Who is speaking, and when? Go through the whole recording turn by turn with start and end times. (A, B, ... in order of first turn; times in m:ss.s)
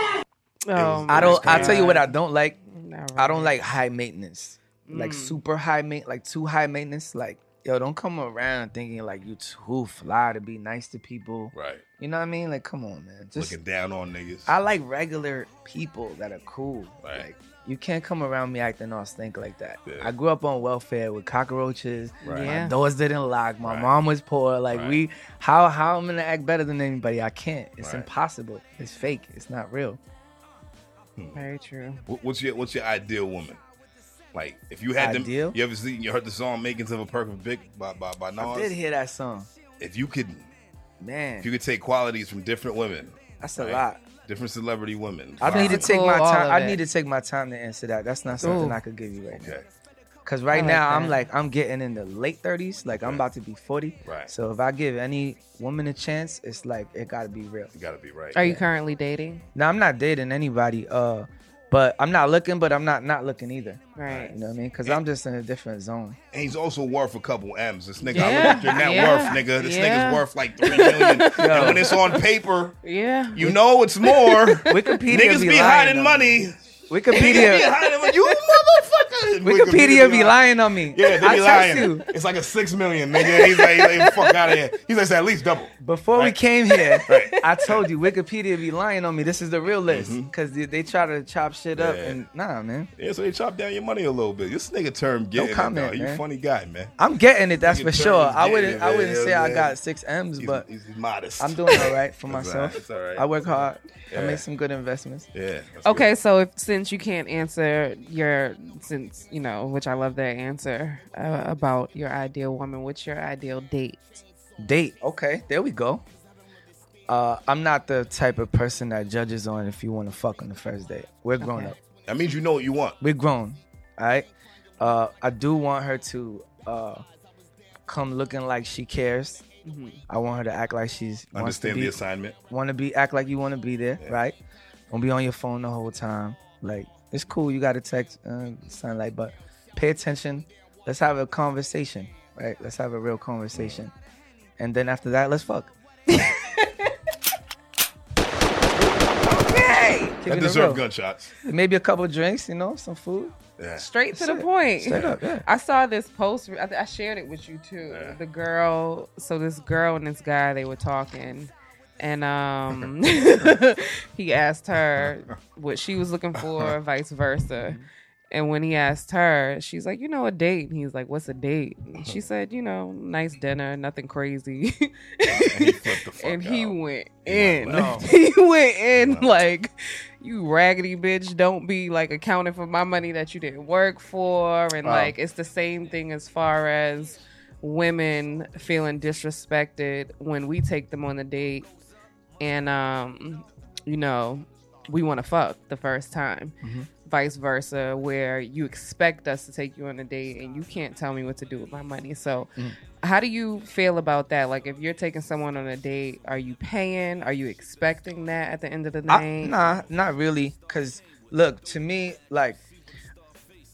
0:00.7-0:02.2 A
0:00.8-0:02.0 B
0:01.1-0:02.6 C
0:02.7-0:03.6 A
0:03.2-0:13.6 C
0:04.9-0:05.4 A
0:11.5-0:11.8 B
0:13.4-0:14.5 B
0:14.5-0:30.0 C
0:19.9-0:20.1 B
0:22.2-0:22.5 B
0:22.3-0:22.8 A
0:23.6-0:23.9 B
0:24.7-0:25.0 B
0:27.8-0:28.1 B
0:31.2-0:31.5 B
0:31.4-0:32.0 A
0:32.1-0:33.6 B
0:34.3-0:38.7 B
0:35.0-0:35.6 C
0:38.4-0:39.5 C
0:39.8-0:40.5 B
0:41.0-0:41.5 C
0:41.4-0:45.9 B
0:43.4-0:44.0 C
0:45.4-0:49.6 C
0:45.5-0:46.8 A
0:48.4-0:48.8 A
0:49.3-0:49.7 B
0:50.3-0:57.7 C
0:50.5-0:51.2 A
0:53.0-0:53.2 B
0:54.0-0:54.3 B
0:57.7-0:58.4 B
0:58.3-0:59.4 A
0:58.4-0:58.6 C
0:59.6-1:06.2 C
1:04.0-1:04.4 A
1:04.0-1:04.3 B
1:06.3-1:12.8 B
1:08.0-1:12.2 A
1:08.2-1:09.3 C
1:11.4-1:11.9 C
1:12.8-1:13.5 A
1:13.3-1:16.6 B
1:14.0-1:15.0 A
1:14.7-1:17.7 C
1:17.1-1:20.4 B
1:17.1-1:18.4 A
1:19.4-1:22.0 C
1:20.9-1:26.4 B
1:21.8-1:22.0 A
1:23.2-1:24.6 A
1:25.8-1:32.9 C
1:26.7-1:27.8 A
1:27.1-1:27.8 B
1:29.9-1:30.3 B
1:31.7-1:32.2 B
1:33.0-1:36.9 B
1:35.4-1:36.2 C
1:37.0-1:40.7 C
1:37.6-1:39.8 B
1:40.4-1:44.4 B
1:41.4-1:45.3 C
1:45.3-1:46.1 B
1:45.8-1:54.2 A
1:54.6-1:56.0 C
1:57.1-2:01.8 C
2:01.4-2:01.7 A
2:02.1-2:03.0 B
2:03.0-2:04.3 C
2:04.8-2:07.0 C
2:07.9-2:09.4 C
2:09.6-2:10.0 A
2:10.1-2:12.0 C
2:11.3-2:12.4 B
2:12.5-2:14.4 C
2:14.9-2:23.9 C
2:23.5-2:23.8 B
2:24.6-2:25.7 C
2:26.1-2:27.0 A
2:29.2-2:31.3 B
2:29.4-2:30.0 A
2:30.2-2:30.8 C
2:31.4-2:33.4 C
2:33.6-2:33.9 B
2:33.8-2:47.8 A
2:34.1-2:35.5 C
2:34.9-2:35.2 B
2:37.9-2:38.2 B
2:47.6-2:47.9 C
2:48.3-3:11.7 A
2:55.3-2:58.1 B
2:57.7-2:58.1 C
2:59.0-2:59.3 B
3:04.8-3:05.1 C
3:12.4-3:16.5 A
3:16.6-3:16.9 C
3:17.0-3:22.5 A
3:23.0-3:29.6 A
3:29.1-3:32.6 C